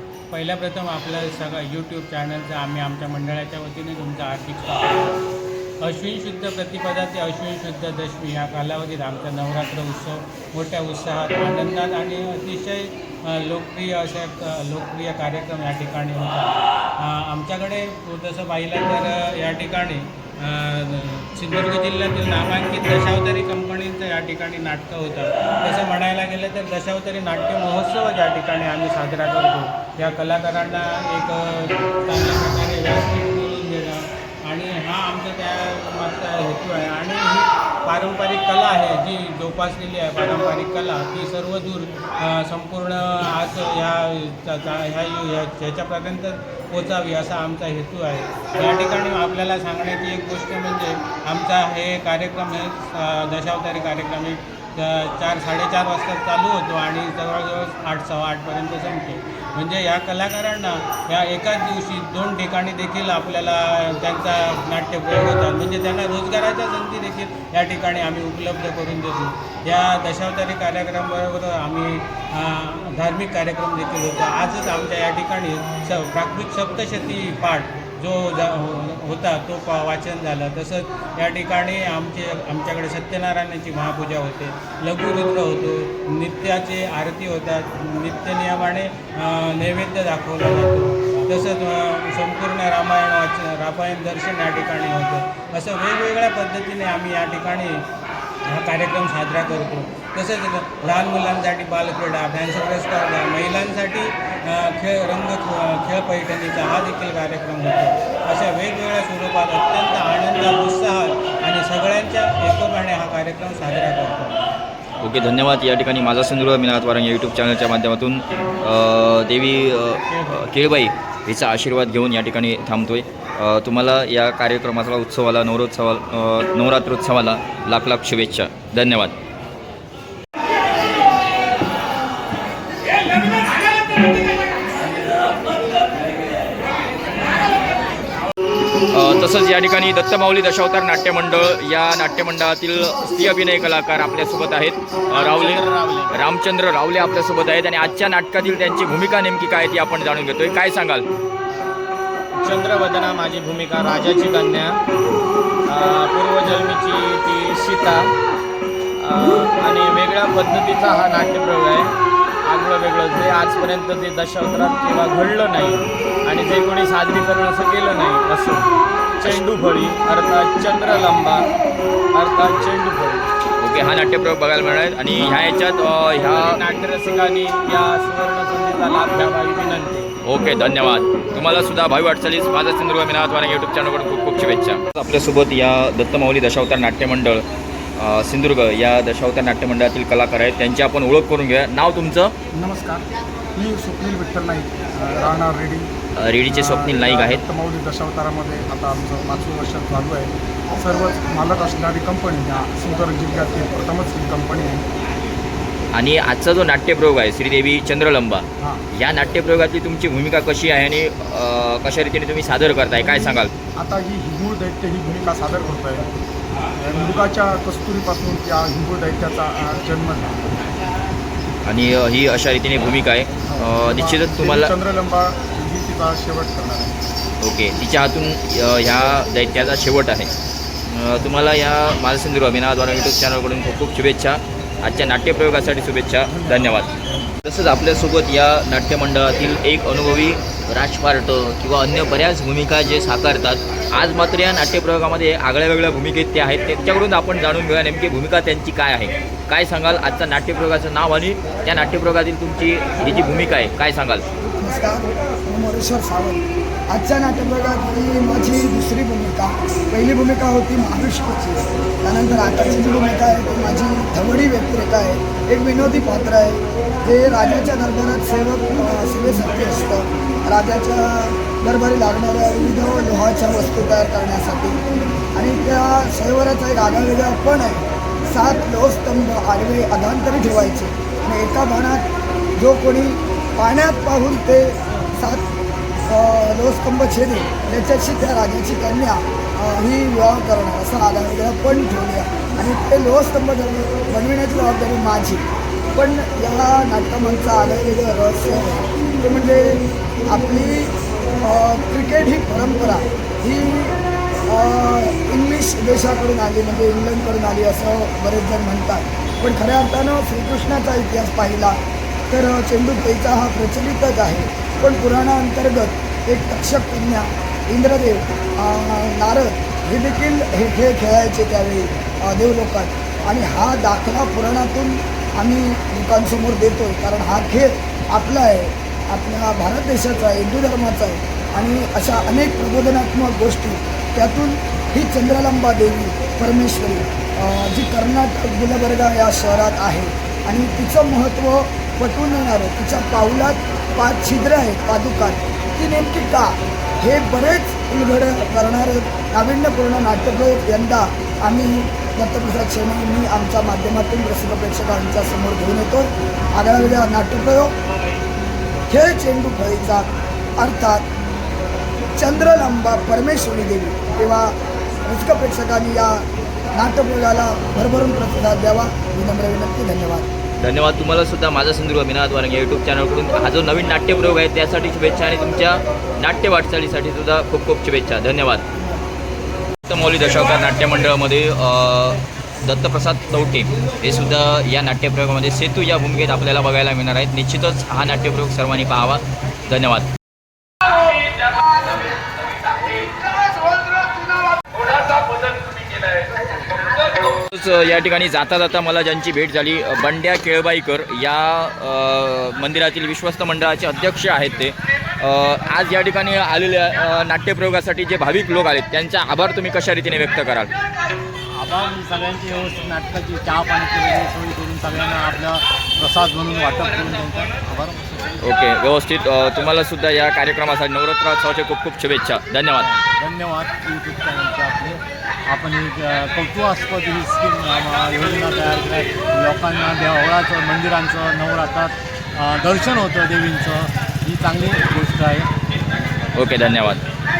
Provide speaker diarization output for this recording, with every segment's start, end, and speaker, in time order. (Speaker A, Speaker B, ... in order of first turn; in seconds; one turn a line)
Speaker A: 0.3-5.2
Speaker A: 5.8-97.8
Speaker A: 98.5-114.4
Speaker B: 115.0-129.2
Speaker A: 120.2-120.5
Speaker B: 138.9-151.1
Speaker C: 145.5-145.8
Speaker C: 152.4-154.8
Speaker C: 155.7-158.0
Speaker C: 159.0-161.9
Speaker C: 162.5-168.7
Speaker C: 169.2-171.5
Speaker C: 172.2-173.2
Speaker B: 173.6-176.6
Speaker C: 176.6-180.1
Speaker B: 180.2-187.4
Speaker B: 188.0-192.3
Speaker D: 192.5-193.0
Speaker D: 193.5-195.9
Speaker B: 196.2-197.4
Speaker D: 196.4-204.8
Speaker B: 205.9-213.5
Speaker D: 213.8-216.1
Speaker D: 216.8-220.5
Speaker B: 221.7-224.7
Speaker D: 223.5-226.9
Speaker B: 227.4-230.3
Speaker B: 230.9-236.9
Speaker B: 237.4-254.2
Speaker E: 254.6-274.8
Speaker E: 275.3-282.1
Speaker E: 282.6-285.4
Speaker E: 286.1-295.4
Speaker E: 295.9-300.9
Speaker E: 301.4-304.0
Speaker E: 304.5-311.8
Speaker E: 312.3-357.7
Speaker E: 358.9-361.0
Speaker E: 362.2-364.5
Speaker E: 365.1-366.2
Speaker E: 366.8-370.3
Speaker B: 370.6-378.6
Speaker B: 379.9-390.1
Speaker B: 397.5-410.7
Speaker F: 411.6-418.4
Speaker B: 418.4-422.9
Speaker F: 422.8-435.5
Speaker B: 436.3-437.0